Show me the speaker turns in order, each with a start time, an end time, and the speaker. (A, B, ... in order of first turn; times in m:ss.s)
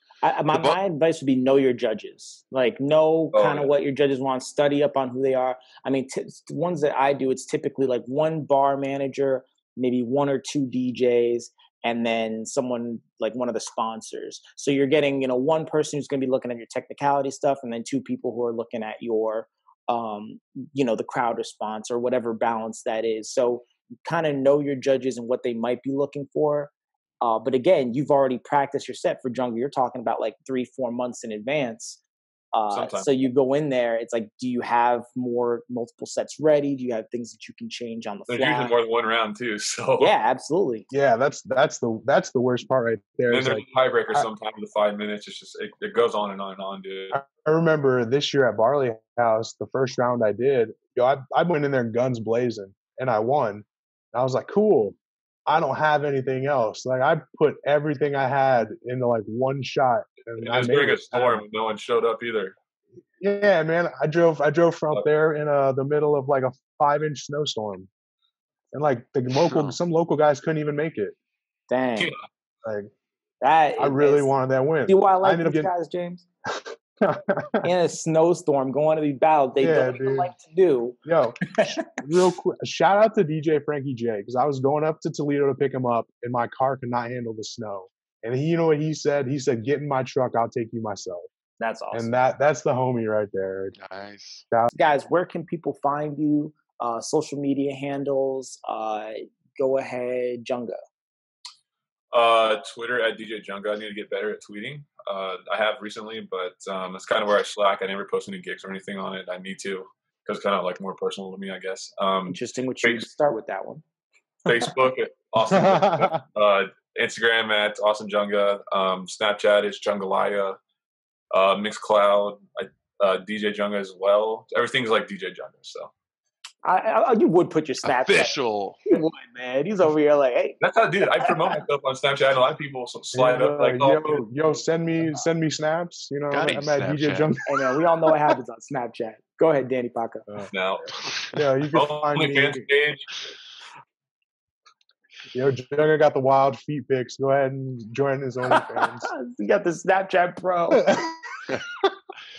0:00.2-0:32.0 A
0:00.5-0:00.8 B
0:03.3-0:03.7 C
0:32.5-0:38.8 A
0:32.7-0:33.1 C
0:38.3-0:40.1 C
0:40.0-0:40.9 A
0:40.9-0:44.3 D
0:43.3-0:47.2 C
0:47.1-0:55.0 D
0:55.5-1:01.4 D
1:00.4-1:02.6 C
1:03.2-1:07.9 D
1:08.7-1:11.2 D
1:09.4-1:09.8 B
1:11.7-1:12.1 A
1:12.6-1:12.9 D
1:13.4-1:14.3 A
1:13.8-1:15.7 D
1:14.9-1:16.3 A
1:16.6-1:17.7 D
1:17.6-1:21.0 A
1:19.6-1:20.3 D
1:21.0-1:21.4 D
1:21.5-1:21.9 A
1:22.0-1:31.3 D
1:31.6-1:32.1 A
1:31.9-1:33.8 D
1:33.8-1:34.4 B
1:34.7-1:40.8 A
1:42.1-1:53.1 C
1:52.3-1:53.8 A
1:54.4-2:00.6 C
1:55.5-1:56.2 D
2:01.3-2:05.9 C
2:06.6-2:08.4 A
2:07.8-2:08.8 B
2:08.9-2:10.6 A
2:10.6-2:14.2 C
2:11.1-2:11.6 A
2:13.1-2:17.8 D
2:16.3-2:17.3 B
2:17.5-2:20.3 A
2:20.5-2:21.0 C
2:21.3-2:22.7 D
2:21.7-2:23.2 C
2:25.3-2:29.1 D
2:29.1-2:30.9 A
2:30.8-2:31.9 D